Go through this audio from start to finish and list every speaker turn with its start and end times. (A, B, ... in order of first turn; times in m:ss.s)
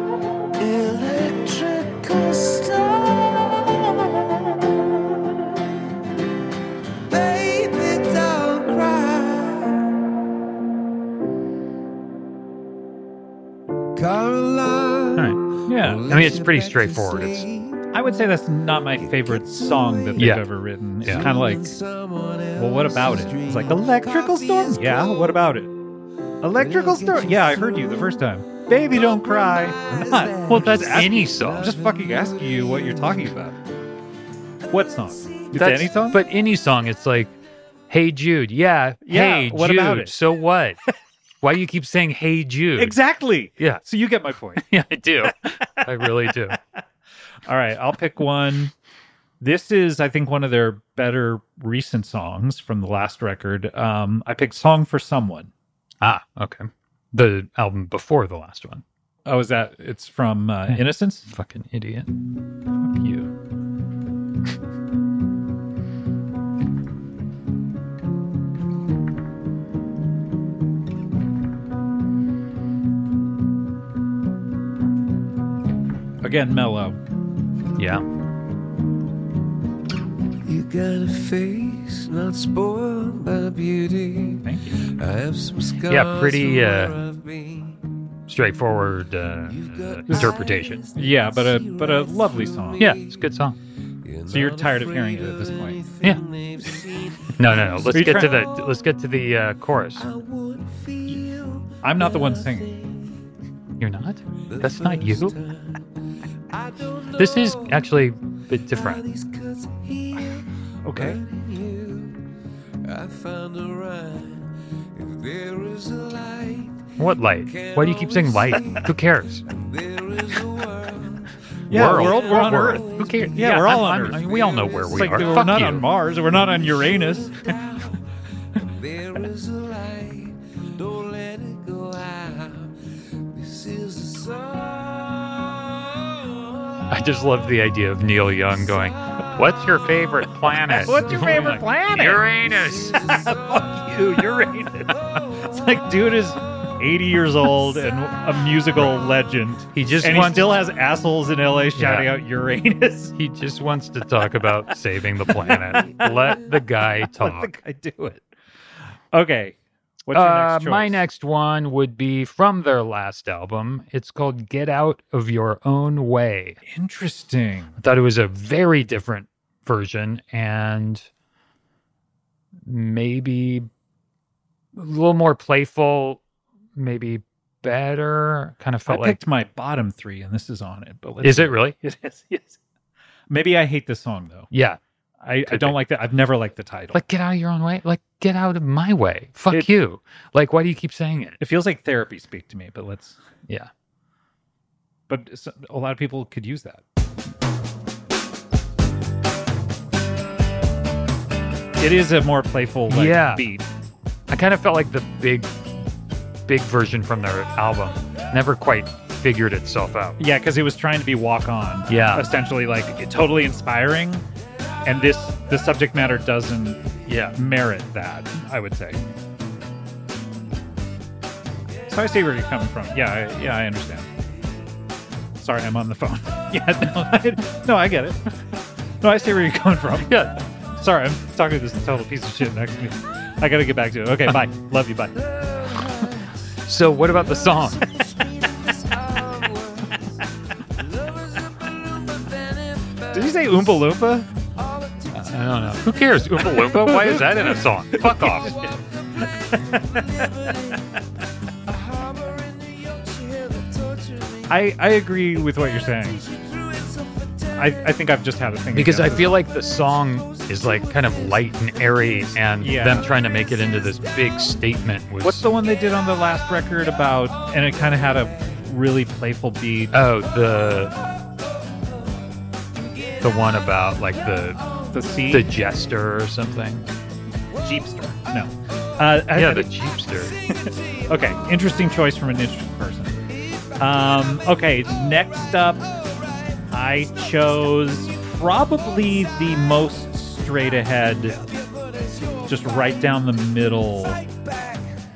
0:00.6-0:04.7 A
0:07.1-0:09.9 A
0:13.9-0:17.8 A
0:15.2-0:15.4 B
0:15.6-0:16.0 C
0:16.0-0:17.4 B
0:17.9-0:21.7 C
0:18.9-0:20.4 A
0:20.2-0:20.4 B
0:21.0-0:25.3 A
0:22.6-0:25.7 C
0:26.4-0:33.6 C
0:26.5-0:28.2 A
0:28.8-0:33.3 A
0:30.5-0:31.7 B
0:34.7-0:36.2 C
0:34.7-0:35.7 A
0:35.5-0:37.3 B
0:37.9-0:40.8 B
0:39.0-0:40.2 C
0:41.4-0:43.0 B
0:42.8-0:44.6 C
0:44.6-0:46.6 B
0:45.7-0:46.8 C
0:47.4-0:48.7 C
0:49.4-0:55.5 C
0:56.0-0:58.8 B
0:59.2-1:01.3 C
1:00.7-1:02.1 B
1:02.8-1:03.3 C
1:16.2-1:17.0 C
1:17.8-1:18.0 B
1:20.4-1:27.9 A
1:24.4-1:24.8 C
1:25.9-1:27.0 B
1:28.3-1:30.8 B
1:29.4-1:33.3 A
1:30.1-1:30.4 C
1:30.9-1:32.9 C
1:32.8-1:33.6 B
1:34.0-1:38.9 A
1:34.3-1:35.8 C
1:37.4-1:40.1 B
1:37.9-1:38.4 C
1:40.0-1:43.2 A
1:41.8-1:42.7 C
1:43.8-1:45.3 B
1:44.4-1:45.9 A
1:46.5-1:47.9 A
1:47.2-1:49.0 B
1:48.5-1:52.3 A
1:50.8-1:51.2 C
1:52.8-1:58.9 A
1:57.0-1:59.4 B
1:59.5-2:16.9 A
2:01.7-2:04.2 C
2:01.7-2:05.9 B
2:04.9-2:07.3 C
2:16.9-2:23.2 B
2:18.7-2:19.9 A
2:20.7-2:22.3 C
2:22.1-2:23.7 A
2:23.1-2:33.1 C
2:29.7-2:30.6 B
2:31.7-2:32.1 B
2:33.2-2:37.5 B
2:35.3-2:35.6 C
2:35.8-2:36.4 A
2:37.2-2:38.2 C
2:39.1-2:41.0 C
2:40.1-2:46.6 B
2:46.6-2:47.8 C
2:47.8-2:51.1 B
2:52.6-2:53.7 B
2:54.7-2:56.2 B
2:56.7-2:59.2 B
2:58.8-3:02.6 C
3:01.2-3:01.8 B
3:03.3-3:04.5 C
3:04.5-3:04.8 B
3:05.2-3:07.0 C
3:05.4-3:05.8 B
3:06.9-3:11.4 B
3:11.4-3:13.2 C
3:15.1-3:16.8 C
3:21.8-3:23.6 C
3:22.9-3:23.5 B
3:24.3-3:25.5 B
3:26.5-3:30.2 B
3:30.2-3:34.2 C
3:31.9-3:32.3 B
3:34.8-3:36.8 C
3:37.0-3:37.4 B
3:37.3-3:39.0 C
3:41.9-3:44.1 C
3:45.4-3:48.3 C
3:49.0-3:55.2 C
3:50.0-3:50.4 B
3:55.2-4:03.8 A
3:56.6-3:57.9 B
4:03.1-4:04.3 C
4:04.6-4:06.3 A
4:05.1-4:08.6 B
4:06.4-4:08.7 C
4:08.0-4:11.0 A
4:09.6-4:10.0 C
4:11.6-4:14.7 A
4:14.5-4:16.2 C
4:15.9-4:17.9 A
4:17.5-4:19.4 C
4:18.7-4:25.4 B
4:19.2-4:24.2 A
4:22.6-4:23.1 C
4:25.2-4:30.0 C
4:29.9-4:31.0 B
4:33.2-4:34.6 B
4:34.9-4:35.5 C
4:35.3-4:36.9 B
4:37.6-4:39.7 C
4:39.3-4:40.4 B
4:40.5-4:43.2 C
4:43.8-4:45.9 C
4:45.8-4:46.6 A
4:46.7-4:51.4 C
4:51.4-4:53.0 A
4:52.5-4:54.2 C
4:54.1-4:54.9 A